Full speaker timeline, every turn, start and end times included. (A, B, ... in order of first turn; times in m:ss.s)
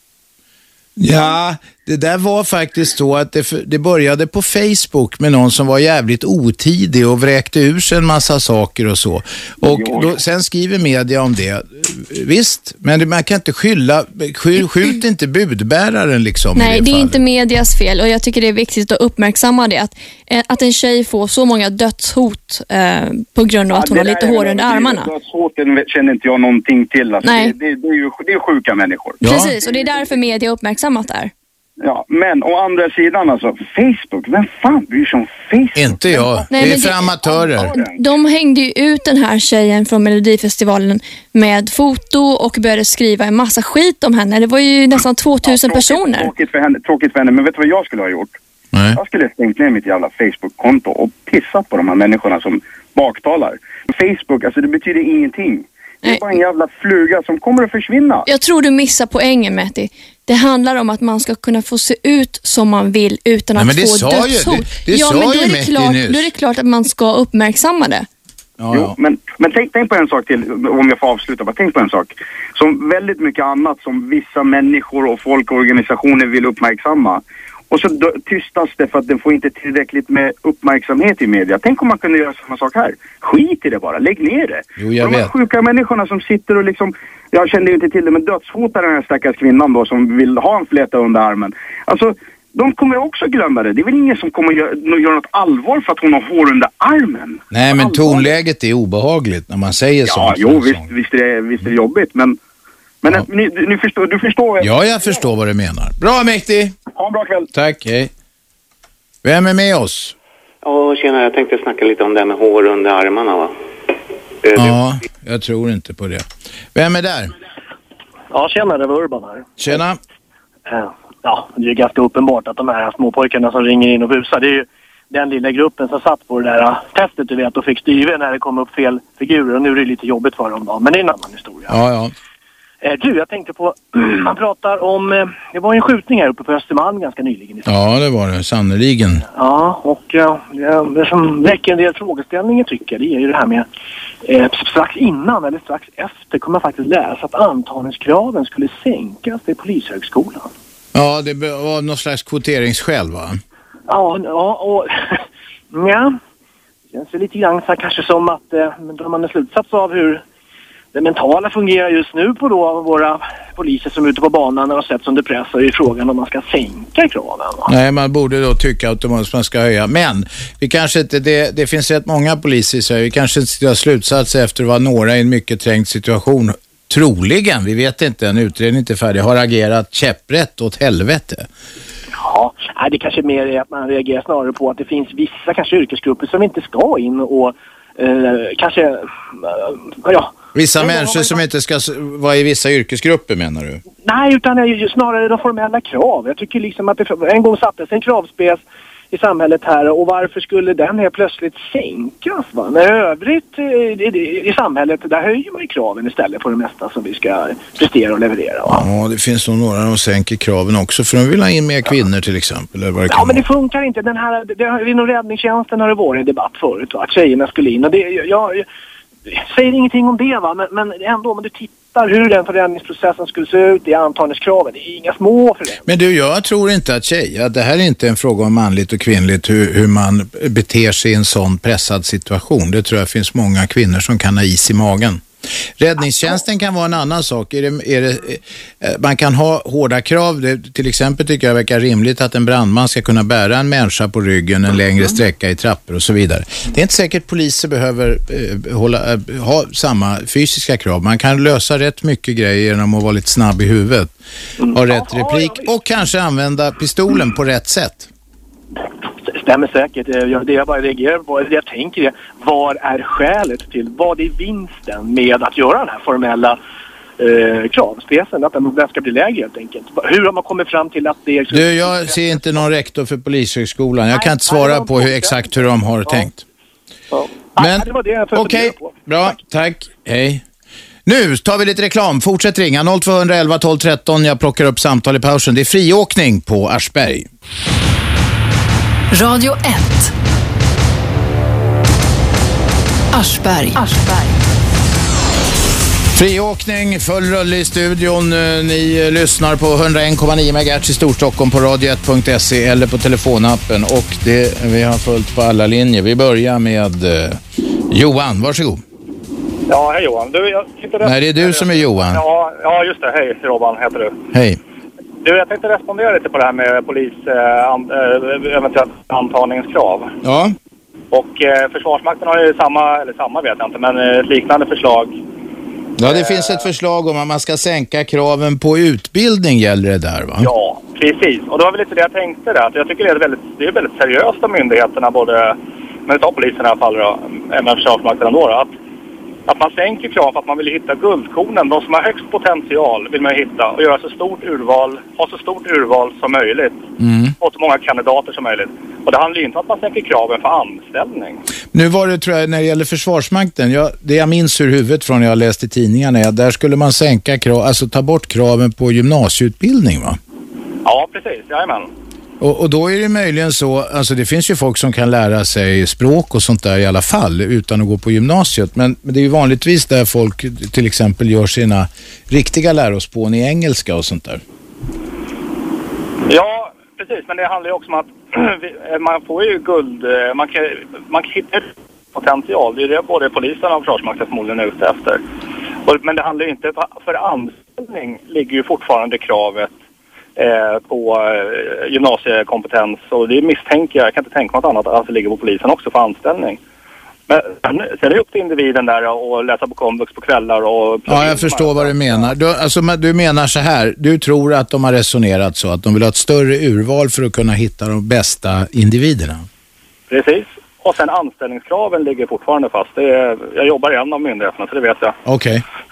0:01.0-0:17.2 A
0:09.6-0:10.1 B
0:16.6-0:25.1 C
0:23.7-0:30.1 B
0:27.2-0:27.6 C
0:29.2-0:31.3 C
0:29.2-0:29.5 A
0:31.8-0:38.0 B
0:35.8-0:37.8 A
0:36.5-0:37.1 C
0:37.8-0:46.3 C
0:45.4-0:48.4 B
0:48.7-0:49.0 A
0:48.9-0:58.3 B
0:58.2-1:08.1 C
1:03.6-1:06.3 A
1:08.6-1:09.0 A
1:08.7-1:38.3 B
1:24.8-1:25.3 A
1:37.5-1:40.9 A
1:40.1-1:42.4 B
1:43.0-1:44.7 B
1:44.6-1:46.8 A
1:46.9-1:47.5 B
1:47.5-1:48.1 A
1:49.2-1:50.2 A
1:50.6-1:53.6 D
1:54.5-1:57.3 A
1:58.3-1:59.7 E
1:59.6-2:00.0 A
2:00.7-2:11.8 E
2:11.7-2:12.1 A
2:12.8-2:17.7 E
2:17.7-2:19.2 A
2:19.3-2:23.7 E
2:24.2-2:30.5 E
2:30.9-2:33.4 A
2:33.9-2:36.2 E
2:36.9-2:40.2 E
2:40.9-2:47.7 E
2:47.7-3:01.5 A
3:02.2-3:11.4 E
3:10.5-3:13.8 A
3:14.0-3:28.8 E
3:28.7-3:33.4 A
3:33.1-3:38.6 E
3:39.3-3:45.8 E
3:45.9-3:55.2 A
3:55.8-4:14.2 A
4:14.6-4:15.7 E
4:14.7-4:18.1 A
4:19.2-4:26.6 E
4:27.2-4:32.4 E
4:31.5-4:36.4 A
4:34.1-4:36.3 E
4:37.1-4:39.3 E
4:37.6-4:40.4 A
4:41.1-4:47.3 A
4:49.1-4:50.1 F
4:53.1-4:54.4 F
4:56.1-5:08.8 A
5:09.7-5:14.2 G
5:11.0-5:12.2 A
5:14.3-5:14.6 A
5:15.2-5:20.2 G
5:20.2-5:20.6 A
5:21.1-5:25.2 G
5:26.0-5:30.5 A
5:26.0-5:26.6 G
5:30.4-5:38.7 G
5:39.5-5:46.8 G
5:47.0-5:47.3 A
5:47.4-5:51.4 G
5:51.7-6:00.2 A
6:00.8-6:01.9 G
6:02.4-6:14.4 A
6:16.3-6:25.2 G
6:25.9-6:29.7 G
6:30.4-6:36.6 G
6:37.3-6:42.3 G
6:41.1-6:49.5 A
6:50.1-6:55.2 G
6:55.3-6:55.6 A